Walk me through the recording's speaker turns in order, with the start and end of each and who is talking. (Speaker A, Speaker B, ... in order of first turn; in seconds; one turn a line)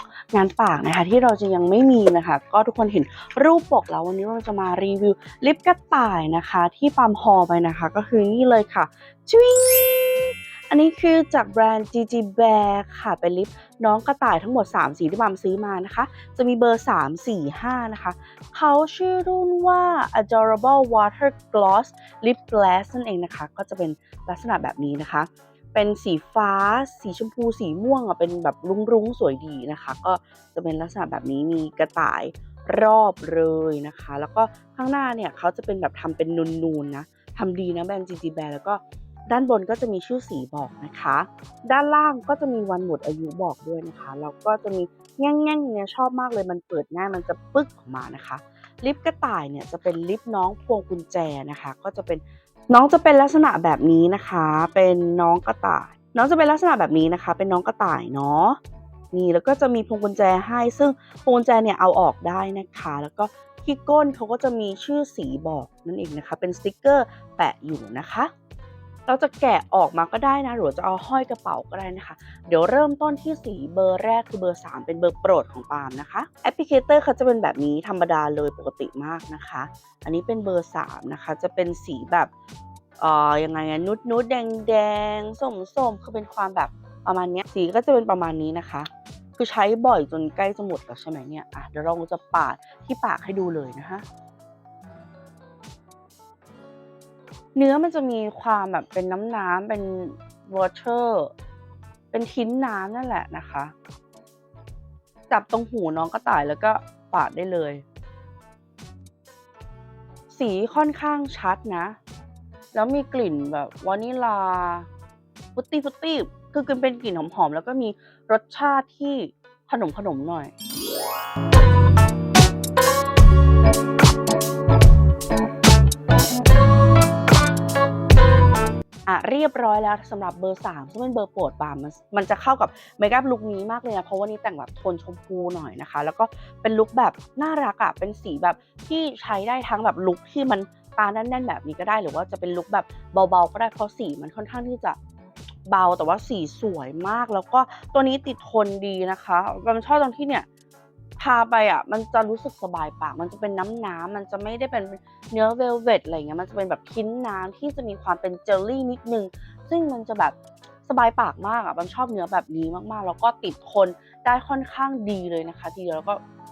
Speaker A: 0.3-58.6
Speaker A: 59.1-68.3
Speaker A: 69.1-82.3
Speaker A: 83.0-94.0
Speaker A: 97.5-101.3
Speaker A: 102.1-103.7
Speaker A: 105.3-107.8
Speaker A: 110.3-112.0
Speaker A: 112.7-114.9
Speaker A: 115.5-120.5
Speaker A: 129.1-145.0
Speaker A: 145.7-150.5
Speaker A: 151.2-166.2